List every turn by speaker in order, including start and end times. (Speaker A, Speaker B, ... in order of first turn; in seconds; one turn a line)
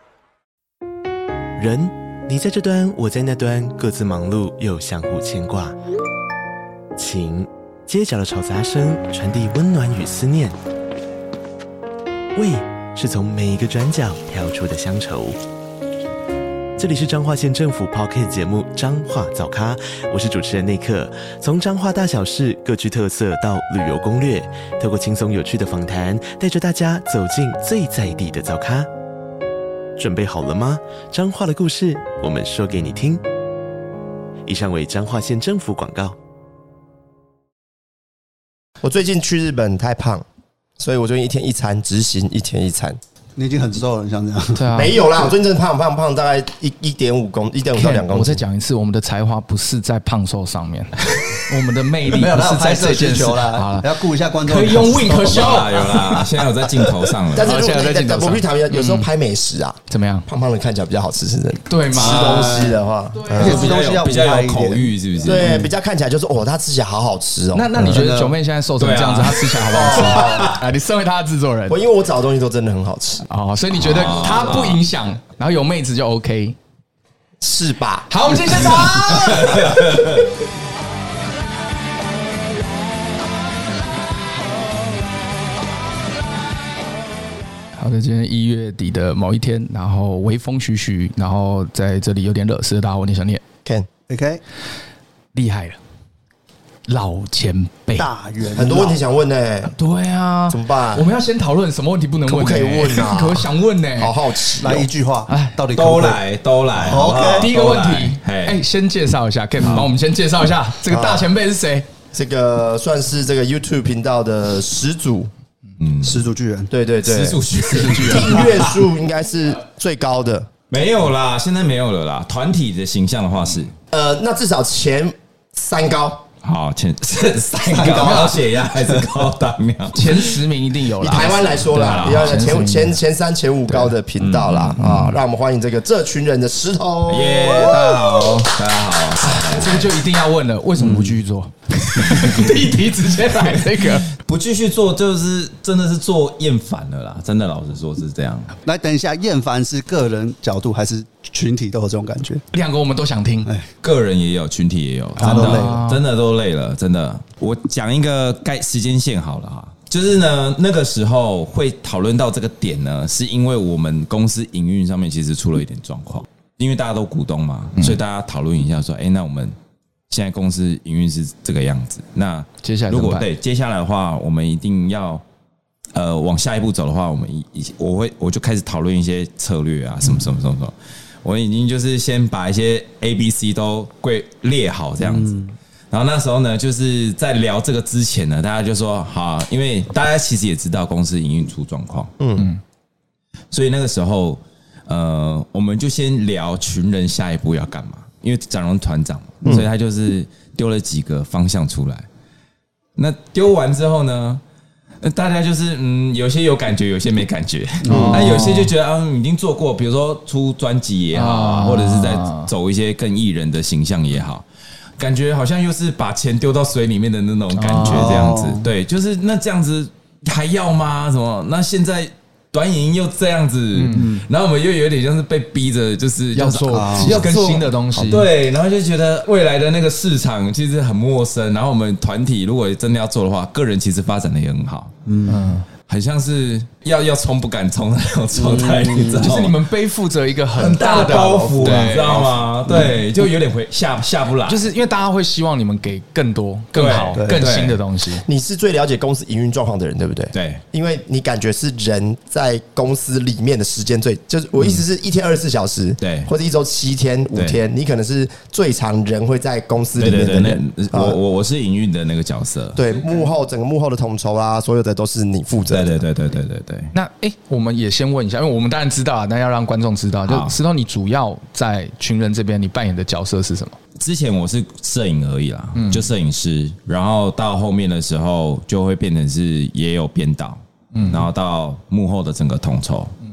Speaker A: 1.6-5.8
Speaker A: 7.0-10.6
Speaker A: 12.3-15.4
Speaker A: 16.8-28.9
Speaker A: 30.0-33.2
Speaker A: 34.5-36.2
Speaker B: 38.8-40.2
Speaker B: 40.8-43.0
Speaker C: 43.4-44.7
Speaker D: 44.5-45.0
Speaker B: 44.8-48.4
Speaker D: 47.8-56.2
Speaker C: 52.1-56.2
Speaker E: 55.2-57.7
Speaker B: 57.3-63.8
Speaker D: 57.4-59.1
Speaker D: 59.9-60.3
Speaker D: 61.7-62.6
Speaker E: 62.0-62.6
Speaker C: 62.0-62.8
Speaker D: 63.1-63.9
Speaker C: 63.3-65.7
Speaker E: 63.4-65.5
Speaker B: 65.2-67.9
Speaker D: 67.5-71.8
Speaker C: 67.8-68.4
Speaker E: 68.8-70.6
Speaker B: 69.7-70.6
Speaker B: 71.7-73.3
Speaker D: 73.3-76.6
Speaker E: 73.8-74.8
Speaker B: 77.4-78.9
Speaker D: 78.1-79.8
Speaker E: 78.7-80.3
Speaker D: 87.8-93.4
Speaker C: 94.1-94.4
Speaker D: 95.3-95.8
Speaker D: 96.9-98.1
Speaker C: 98.0-99.0
Speaker B: 98.5-99.7
Speaker D: 99.7-104.2
Speaker B: 100.5-101.0
Speaker B: 102.3-104.9
Speaker C: 104.6-106.2
Speaker D: 105.3-105.6
Speaker E: 105.7-108.6
Speaker C: 106.7-107.5
Speaker D: 107.4-111.9
Speaker B: 110.9-111.3
Speaker B: 112.1-115.3
Speaker E: 115.8-116.2
Speaker C: 116.0-116.7
Speaker B: 116.7-120.5
Speaker E: 117.0-118.8
Speaker D: 117.8-118.4
Speaker C: 117.8-118.2
Speaker E: 120.7-123.7
Speaker B: 123.9-126.2
Speaker E: 126.4-130.4
Speaker D: 127.7-128.4
Speaker D: 129.9-133.0
Speaker B: 131.0-137.9
Speaker E: 131.8-132.4
Speaker E: 134.2-135.2
Speaker E: 137.1-139.9
Speaker D: 139.3-144.1
Speaker C: 140.8-141.1
Speaker E: 142.0-142.5
Speaker E: 143.4-148.5
Speaker C: 148.6-152.4
Speaker D: 152.5-153.5
Speaker E: 153.8-169.5
Speaker D: 155.2-156.0
Speaker C: 155.2-155.8
Speaker E: 170.1-175.2
Speaker D: 172.6-173.3
Speaker E: 175.9-185.4
Speaker C: 185.0-185.5
Speaker E: 185.9-192.2
Speaker B: 192.2-192.5
Speaker E: 193.5-202.1
Speaker E: 203.0-204.4
Speaker E: 205.0-214.4
Speaker C: 207.8-208.5
Speaker D: 207.9-208.7
Speaker D: 211.1-212.5
Speaker E: 215.0-234.9
Speaker D: 217.5-218.3
Speaker C: 217.8-218.7
Speaker D: 223.7-224.2
Speaker D: 226.3-228.3
Speaker C: 226.7-227.3
Speaker C: 235.1-235.4
Speaker D: 235.3-235.7
Speaker E: 235.9-239.6
Speaker C: 238.3-239.3
Speaker D: 239.1-242.3
Speaker E: 240.5-244.6
Speaker C: 240.9-243.0
Speaker D: 244.5-248.2
Speaker E: 246.7-247.8
Speaker C: 247.2-247.4
Speaker B: 248.2-261.2
Speaker E: 250.3-250.6
Speaker E: 256.0-256.3
Speaker E: 257.3-257.6
Speaker E: 260.0-262.9
Speaker B: 262.8-266.0
Speaker E: 265.7-266.9
Speaker D: 266.9-273.8
Speaker E: 270.3-270.5
Speaker E: 274.0-283.1
Speaker D: 275.8-276.1
Speaker D: 280.9-281.3